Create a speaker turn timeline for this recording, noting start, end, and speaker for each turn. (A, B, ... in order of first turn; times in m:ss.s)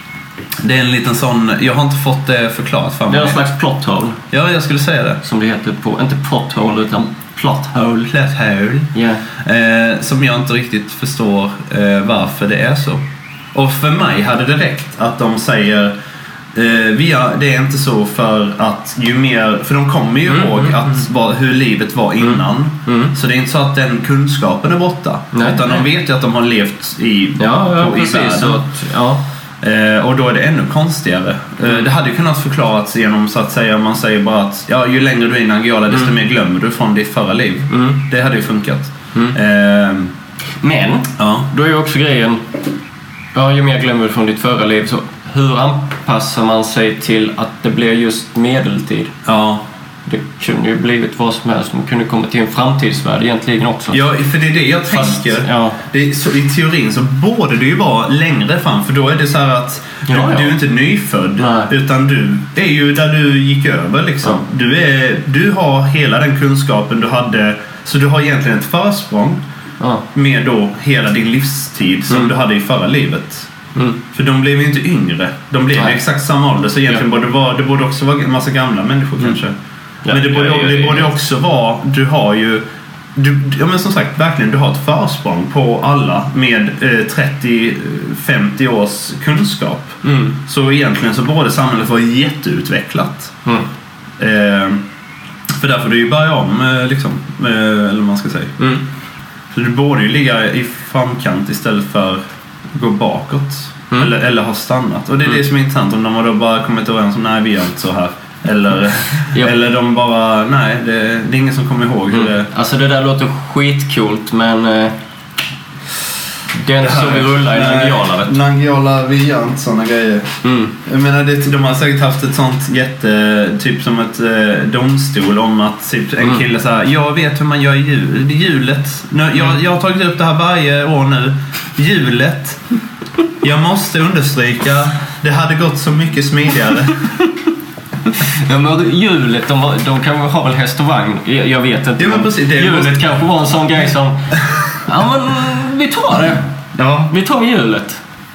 0:00.6-0:03.4 A
0:03.1-0:04.2 B
0:04.3-0:05.2 A
0:05.2-0:08.1 B
0:08.0-0:15.9 A
0:08.9-0:09.2 B
0:16.5-0:28.6 A
0:20.3-0:21.0 B
0:22.2-0:23.1 B
0:25.3-0:25.8 B
0:27.4-0:29.2 B
0:29.6-0:40.1 A
0:37.7-0:38.0 B
0:40.6-0:42.4 B
0:41.2-0:41.5 A
0:43.3-0:49.1 B
0:49.2-0:49.6 A
0:50.0-0:54.0 B
0:53.9-1:09.4 A
0:54.9-0:55.8 B
1:00.1-1:00.6 B
1:01.4-1:01.7 B
1:09.8-1:10.0 B
1:10.1-1:13.5 A
1:13.7-1:14.0 B
1:14.1-1:19.6 A
1:20.0-1:21.1 B
1:20.1-1:22.6 A
1:23.1-1:33.3 A
1:30.0-1:30.4 B
1:34.2-1:34.8 A
1:35.5-1:38.6 A
1:38.6-1:38.8 B
1:39.5-1:52.5 A
1:52.1-1:55.0 B
1:56.5-1:58.4 B
1:56.8-2:12.6 A
2:00.4-2:00.7 B
2:13.4-2:17.1 A
2:18.1-2:26.5 B
2:22.0-2:23.0 A
2:26.7-2:27.1 A
2:27.1-2:28.0 B